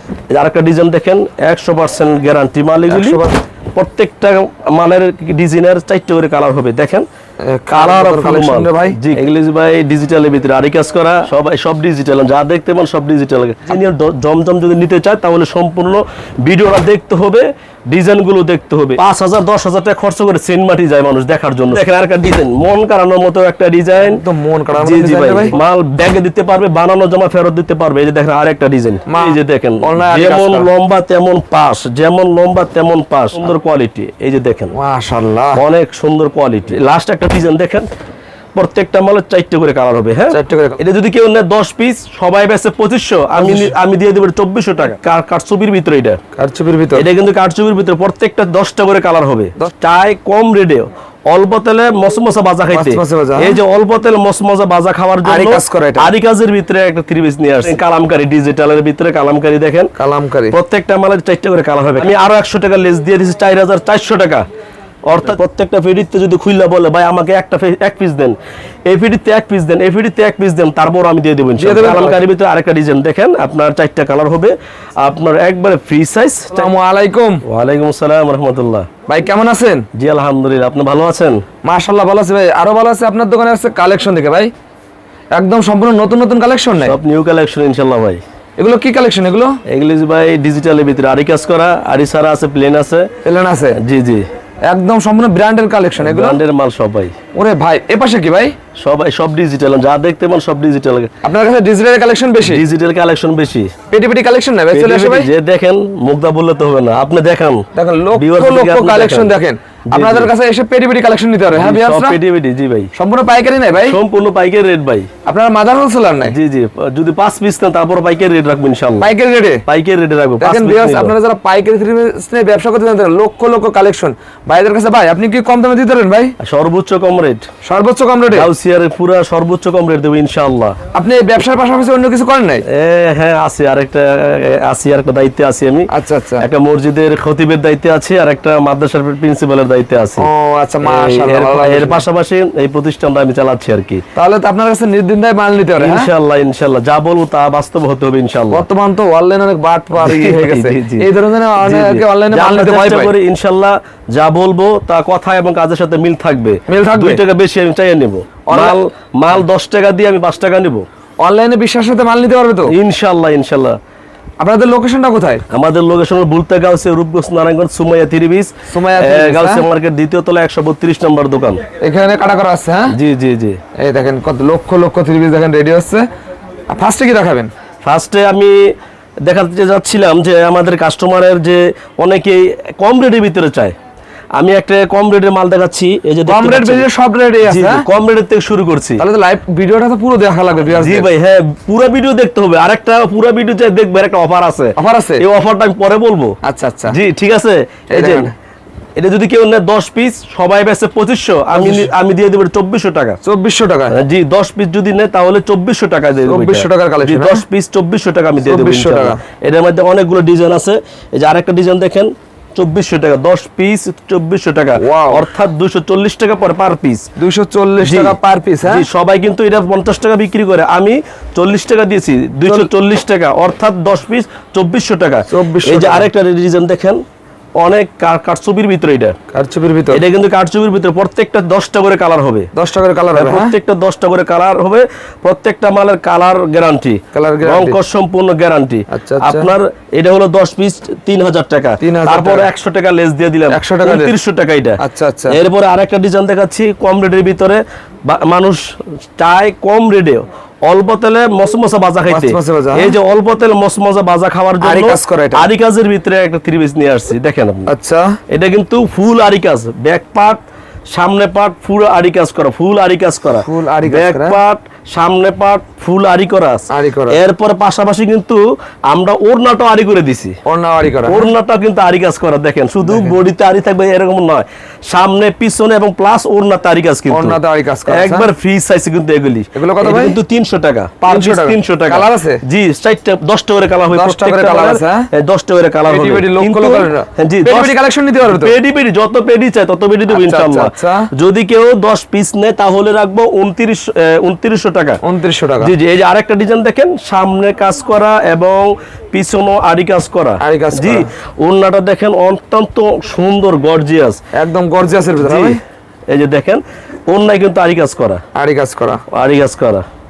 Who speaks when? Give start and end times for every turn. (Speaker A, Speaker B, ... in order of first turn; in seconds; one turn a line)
Speaker A: 0.3-3.2
Speaker B: 2.9-3.4
Speaker A: 3.7-7.0
Speaker B: 7.4-9.0
Speaker A: 7.7-24.2
Speaker B: 24.0-25.6
Speaker A: 24.8-34.7
Speaker B: 29.1-30.7
Speaker B: 34.7-35.6
Speaker A: 35.5-37.9
Speaker A: 38.5-46.2
Speaker B: 40.3-40.8
Speaker B: 43.4-43.7
Speaker B: 46.4-47.0
Speaker A: 47.0-59.9
Speaker B: 52.7-53.6
Speaker B: 55.2-56.1
Speaker B: 60.0-60.5
Speaker A: 60.5-64.4
Speaker A: 65.1-76.7
Speaker B: 71.6-72.2
Speaker B: 76.5-77.4
Speaker A: 77.4-78.9
Speaker B: 79.1-79.8
Speaker A: 79.9-81.4
Speaker B: 81.6-84.5
Speaker B: 85.3-87.0
Speaker A: 86.8-88.2
Speaker B: 88.6-89.6
Speaker A: 89.7-93.1
Speaker B: 93.2-93.8
Speaker A: 93.7-94.2
Speaker B: 94.7-96.4
Speaker A: 96.0-97.1
Speaker B: 97.3-98.5
Speaker A: 98.8-101.1
Speaker B: 101.2-102.6
Speaker A: 102.4-103.7
Speaker B: 103.9-105.3
Speaker A: 104.7-109.3
Speaker B: 107.7-112.2
Speaker A: 109.9-110.3
Speaker A: 111.5-112.9
Speaker B: 112.9-114.0
Speaker A: 113.8-115.1
Speaker B: 115.2-116.3
Speaker A: 116.2-119.1
Speaker B: 119.0-119.6
Speaker A: 119.7-121.1
Speaker B: 120.4-126.3
Speaker A: 126.4-127.4
Speaker B: 127.6-128.5
Speaker A: 128.3-130.8
Speaker B: 130.9-132.6
Speaker A: 132.7-135.9
Speaker B: 135.9-136.4
Speaker A: 136.4-140.3
Speaker B: 140.2-142.0
Speaker A: 140.8-144.0
Speaker B: 144.1-146.1
Speaker A: 145.8-148.6
Speaker B: 148.5-153.1
Speaker A: 150.0-151.1
Speaker A: 151.6-160.8
Speaker B: 156.7-157.2
Speaker B: 158.4-158.8
Speaker B: 161.2-162.7
Speaker A: 162.7-163.8
Speaker B: 164.4-165.4
Speaker A: 165.5-171.6
Speaker B: 168.7-169.7
Speaker B: 171.8-172.9
Speaker A: 172.9-173.6
Speaker B: 173.8-176.1
Speaker B: 176.7-177.5
Speaker A: 177.8-178.7
Speaker A: 179.2-183.7
Speaker A: 184.4-186.9
Speaker B: 186.2-187.8
Speaker A: 187.4-189.0
Speaker B: 189.0-191.1
Speaker A: 190.7-196.3
Speaker B: 194.8-195.2
Speaker B: 196.4-196.9
Speaker A: 196.9-198.3
Speaker B: 197.9-198.3
Speaker A: 199.0-203.2
Speaker B: 201.5-201.9
Speaker B: 203.2-203.9
Speaker A: 203.9-217.1
Speaker B: 206.3-207.4
Speaker B: 208.4-209.2
Speaker B: 214.8-215.3
Speaker B: 217.2-218.8
Speaker A: 217.8-227.0
Speaker B: 225.3-226.1
Speaker A: 227.6-229.2
Speaker B: 229.3-230.0
Speaker A: 229.9-232.5
Speaker B: 232.5-233.5
Speaker A: 233.2-257.7
Speaker B: 237.1-237.8
Speaker B: 238.9-239.5
Speaker B: 241.8-242.5
Speaker B: 243.5-244.1
Speaker B: 244.8-245.4
Speaker B: 252.1-253.0
Speaker B: 254.6-255.5
Speaker B: 257.7-258.2
Speaker A: 258.3-260.4
Speaker A: 260.9-270.4
Speaker B: 263.4-264.4
Speaker B: 266.7-267.2
Speaker B: 270.4-271.3
Speaker A: 271.1-295.0
Speaker B: 272.9-273.2
Speaker B: 277.1-278.3
Speaker B: 279.5-280.2
Speaker B: 281.0-282.4
Speaker B: 283.9-285.1
Speaker B: 285.9-288.6
Speaker B: 290.1-291.1
Speaker B: 295.0-295.7
Speaker A: 295.6-304.2
Speaker B: 300.4-301.1
Speaker B: 304.3-305.6
Speaker A: 305.2-305.6
Speaker A: 306.1-308.2
Speaker B: 308.3-309.0
Speaker A: 309.1-309.8